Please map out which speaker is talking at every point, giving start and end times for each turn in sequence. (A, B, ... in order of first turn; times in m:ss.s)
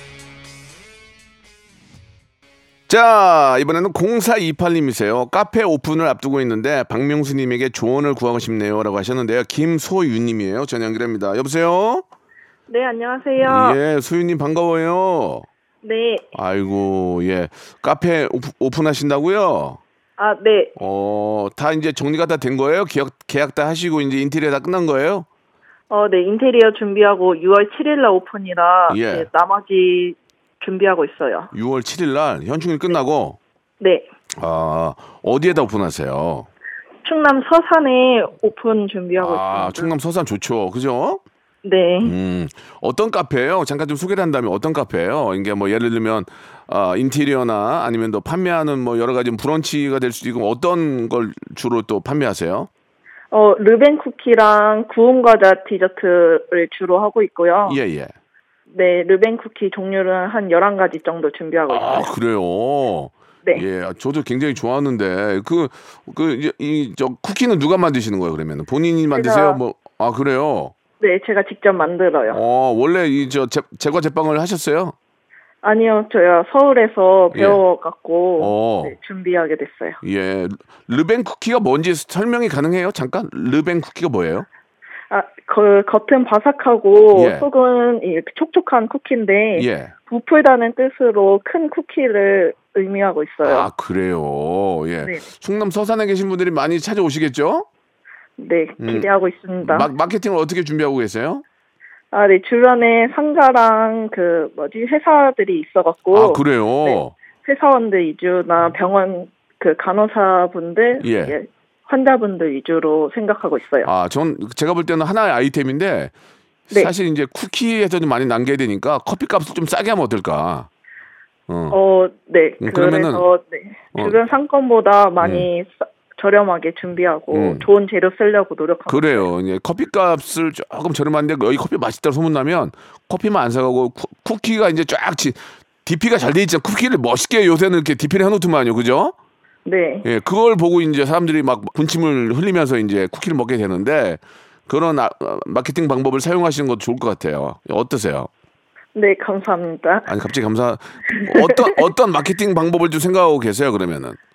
0:02.9-0:12.0 A
0:12.7-0:13.8 B
0:13.4-0:15.5 A
0:15.8-0:16.3 B
0:16.4-0:19.8 A
0:20.2-0:20.8 B
0:20.8-0:25.3 A
0:25.9-0:31.5 B
0:28.9-0:29.3 A
0:31.5-0:33.4 A
0:33.8-0:34.1 B
0:34.4-0:36.5 A
0:37.0-0:39.9 B
0:39.2-0:41.2 A
0:41.6-0:42.2 B
0:42.0-0:52.7 A
0:53.3-0:57.8 B
0:57.7-0:58.1 A
0:58.7-1:02.1 B
1:01.7-1:10.7 A
1:09.1-1:09.6 B
1:11.0-1:12.4 B
1:12.3-1:15.0 A
1:15.6-1:20.0 B
1:17.3-1:17.6 A
1:18.4-1:19.0 A
1:20.0-1:24.5 A
1:25.1-1:33.7 B
1:27.1-1:27.5 A
1:29.6-1:29.9 A
1:33.4-1:37.7 A
1:38.4-1:39.9 B
1:38.8-1:39.1 A
1:39.6-1:41.4 A
1:42.1-1:53.9 B
1:46.1-1:47.1 A
1:51.0-1:51.4 A
1:53.8-1:56.1 A
1:56.7-2:00.7 A
2:01.5-2:01.8 A
2:01.7-2:09.3 B
2:02.6-2:03.2 A
2:05.2-2:05.5 A
2:07.3-2:07.7 A
2:08.9-2:19.1 A
2:19.7-2:20.1 B
2:20.0-2:28.3 A
2:29.0-2:30.1 B
2:30.1-2:34.2 A
2:31.2-2:31.8 B